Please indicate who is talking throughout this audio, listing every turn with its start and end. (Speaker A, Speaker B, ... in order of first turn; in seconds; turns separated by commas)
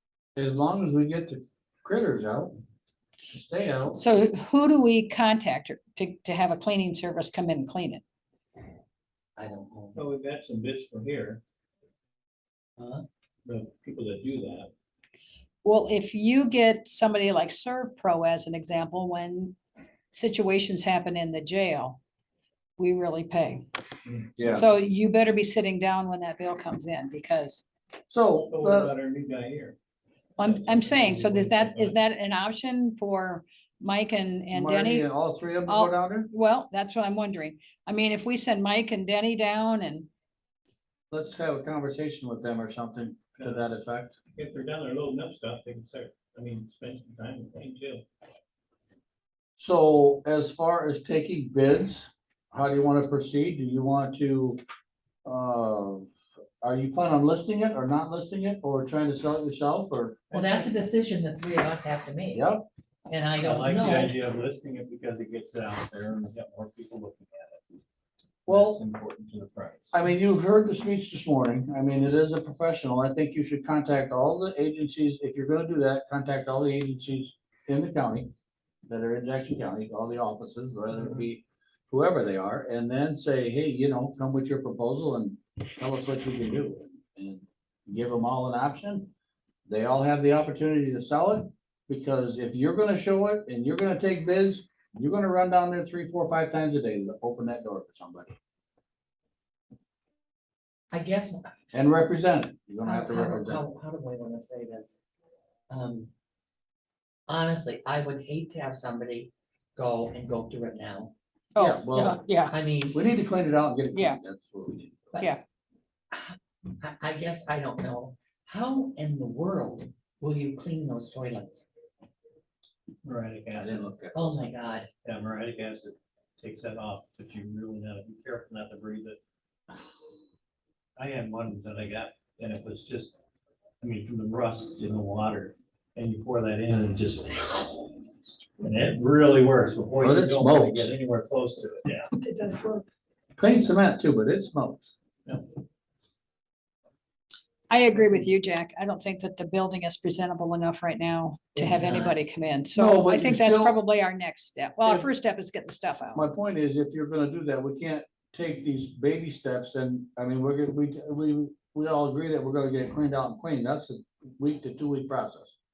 Speaker A: 0.3-2.6, Speaker A: 3.3-4.0, Speaker B: 4.0-8.0, Speaker C: 9.4-10.1, Speaker D: 9.9-11.4, Speaker C: 12.8-13.0, Speaker D: 13.4-14.7, Speaker B: 15.6-19.6, Speaker B: 20.1-22.0, Speaker B: 22.8-23.7, Speaker A: 24.4-24.6, Speaker B: 24.4-27.6, Speaker A: 28.1-28.9, Speaker D: 28.5-29.8, Speaker D: 30.4-32.0, Speaker B: 30.4-35.0, Speaker A: 34.5-36.3, Speaker B: 35.7-40.1, Speaker A: 41.1-44.2, Speaker D: 44.3-48.0, Speaker A: 49.6-54.6, Speaker A: 55.2-56.1, Speaker A: 56.6-60.2, Speaker D: 60.3-60.7, Speaker C: 60.3-62.5, Speaker A: 62.3-62.7, Speaker C: 63.1-64.2, Speaker D: 63.4-67.8, Speaker D: 68.5-70.0, Speaker A: 68.5-68.8, Speaker A: 69.9-78.3, Speaker A: 78.9-89.1, Speaker A: 89.7-98.3, Speaker C: 100.9-101.5, Speaker A: 101.7-103.6, Speaker C: 102.8-105.0, Speaker C: 105.7-106.1, Speaker C: 107.3-111.1, Speaker B: 111.5-112.6, Speaker A: 111.6-112.2, Speaker C: 112.0-113.1, Speaker A: 112.9-115.1, Speaker C: 116.1-121.6, Speaker D: 123.0-123.9, Speaker A: 123.5-124.5, Speaker C: 124.1-124.9, Speaker D: 125.0-129.2, Speaker D: 131.0-133.2, Speaker D: 133.8-142.1, Speaker A: 140.0-140.9, Speaker B: 142.2-142.8, Speaker A: 143.4-145.0, Speaker B: 147.7-156.2, Speaker C: 151.6-152.2, Speaker A: 152.8-153.8, Speaker A: 156.2-165.5